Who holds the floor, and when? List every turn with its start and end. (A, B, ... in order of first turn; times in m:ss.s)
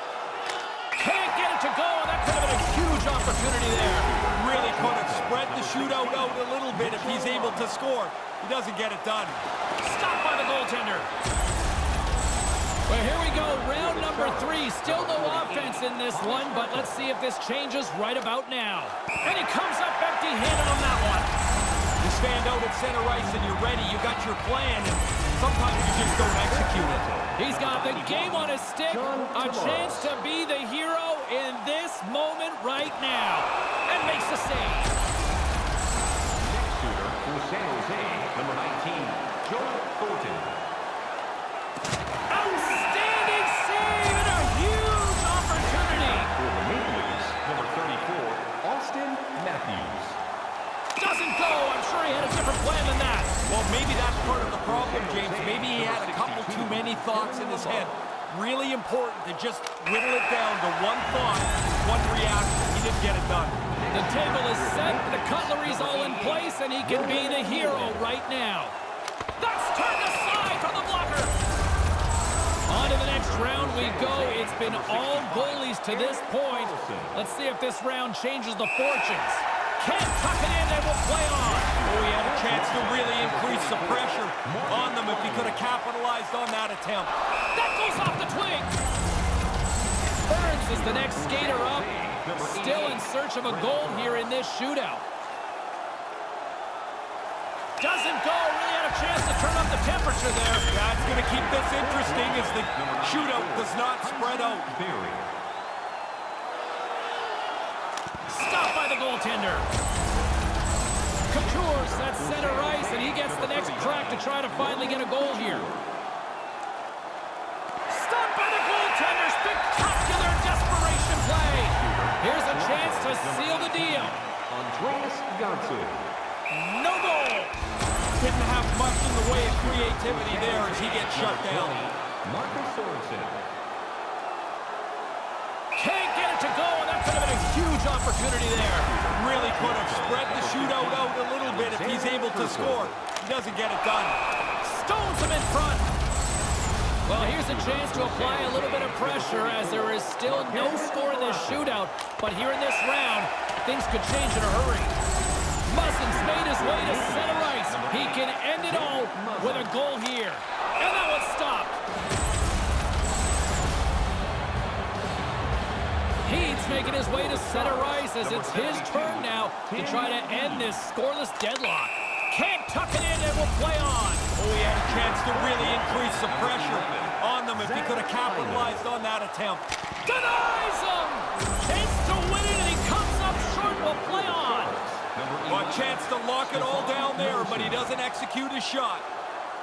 0:01.0-0:04.1 A
0:03.9-0:07.7 B
0:04.3-0:09.4 C
0:09.8-0:11.1 A
0:12.9-0:21.3 A
0:13.4-0:16.9 B
0:22.0-0:27.0 C
0:26.2-0:30.1 B
0:27.4-0:34.9 A
0:36.4-0:40.6 B
0:42.3-0:46.3 A
0:45.9-0:50.2 B
0:51.0-0:53.3 A
0:53.4-1:03.6 C
0:54.3-0:57.9 B
1:03.7-1:08.1 B
1:03.9-1:08.7 A
1:09.4-1:11.3 A
1:12.7-1:21.8 A
1:13.0-1:17.2 B
1:21.5-1:25.6 B
1:21.8-1:27.1 C
1:27.5-1:28.8 A
1:30.2-1:35.0 A
1:30.7-1:34.3 B
1:37.8-1:40.7 A
1:40.7-1:44.7 C
1:41.0-1:45.3 B
1:48.3-1:49.7 A
1:51.3-1:55.7 A
1:51.7-1:55.8 B
1:57.9-2:04.2 A
2:01.7-2:06.1 B
2:06.5-2:07.5 A
2:08.2-2:11.8 C
2:09.5-2:13.5 B
2:15.8-2:18.9 A
2:18.8-2:23.0 B
2:19.1-2:24.2 C
2:24.6-2:25.9 A
2:27.0-2:35.0 A
2:27.1-2:31.7 B
2:35.6-2:41.8 A
2:36.0-2:39.7 B
2:46.2-2:54.3 A
2:46.6-2:50.8 B
2:54.3-2:59.6 C
2:54.7-2:58.8 B
3:00.0-3:04.7 A
3:03.5-3:07.9 B
3:05.5-3:09.0 C